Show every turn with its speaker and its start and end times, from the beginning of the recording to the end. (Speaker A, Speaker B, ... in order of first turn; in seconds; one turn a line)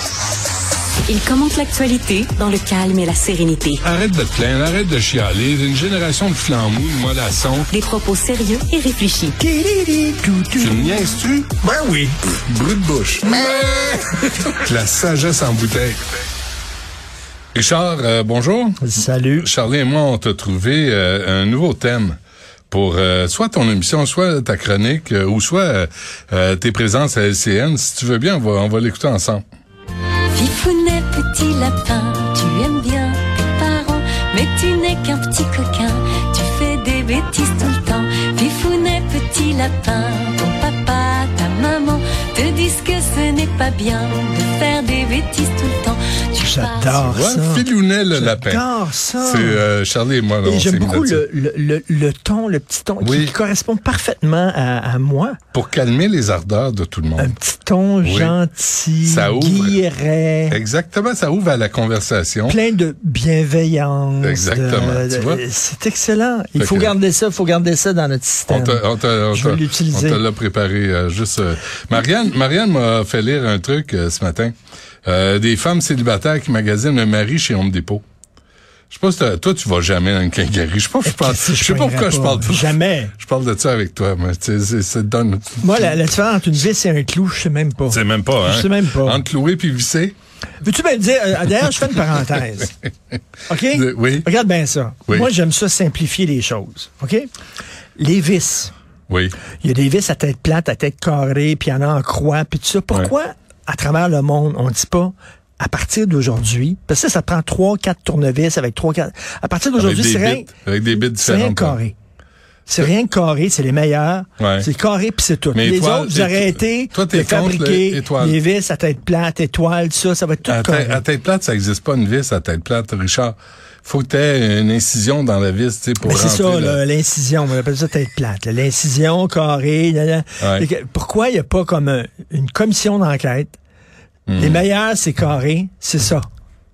Speaker A: 1.1-3.8
Speaker B: 1.3-3.7
Speaker C: 3.8-7.7
Speaker A: 7.7-9.4
Speaker B: 7.8-9.2
Speaker D: 9.4-11.0
Speaker C: 10.6-11.6
Speaker D: 11.6-12.2
Speaker C: 12.5-16.0
Speaker C: 17.5-18.8
Speaker D: 18.8-19.5
Speaker C: 19.4-22.2
Speaker C: 22.7-29.4
Speaker B: 30.3-47.1
Speaker D: 46.4-49.6
Speaker C: 47.0-48.7
Speaker C: 49.2-51.3
Speaker D: 50.4-55.4
Speaker C: 53.0-53.4
Speaker C: 55.5-57.4
Speaker D: 57.2-60.6
Speaker C: 58.0-58.4
Speaker C: 59.0-59.8
Speaker C: 60.5-62.6
Speaker D: 62.5-70.2
Speaker C: 64.2-65.4
Speaker C: 66.6-66.9
Speaker C: 68.5-74.5
Speaker C: 75.0-78.0
Speaker C: 78.9-86.0
Speaker D: 81.0-83.1
Speaker D: 85.6-89.2
Speaker C: 87.9-90.2
Speaker D: 90.6-92.8
Speaker D: 93.5-97.3
Speaker C: 93.7-94.3
Speaker C: 95.1-95.3
Speaker D: 98.0-98.7
Speaker C: 99.1-99.4
Speaker D: 99.6-110.5
Speaker C: 109.8-111.8
Speaker D: 111.1-112.0
Speaker D: 112.7-121.0
Speaker C: 114.4-114.7
Speaker C: 115.5-118.4
Speaker C: 120.5-126.8
Speaker D: 126.0-133.6
Speaker C: 130.4-130.7
Speaker C: 134.3-134.6
Speaker D: 134.4-136.3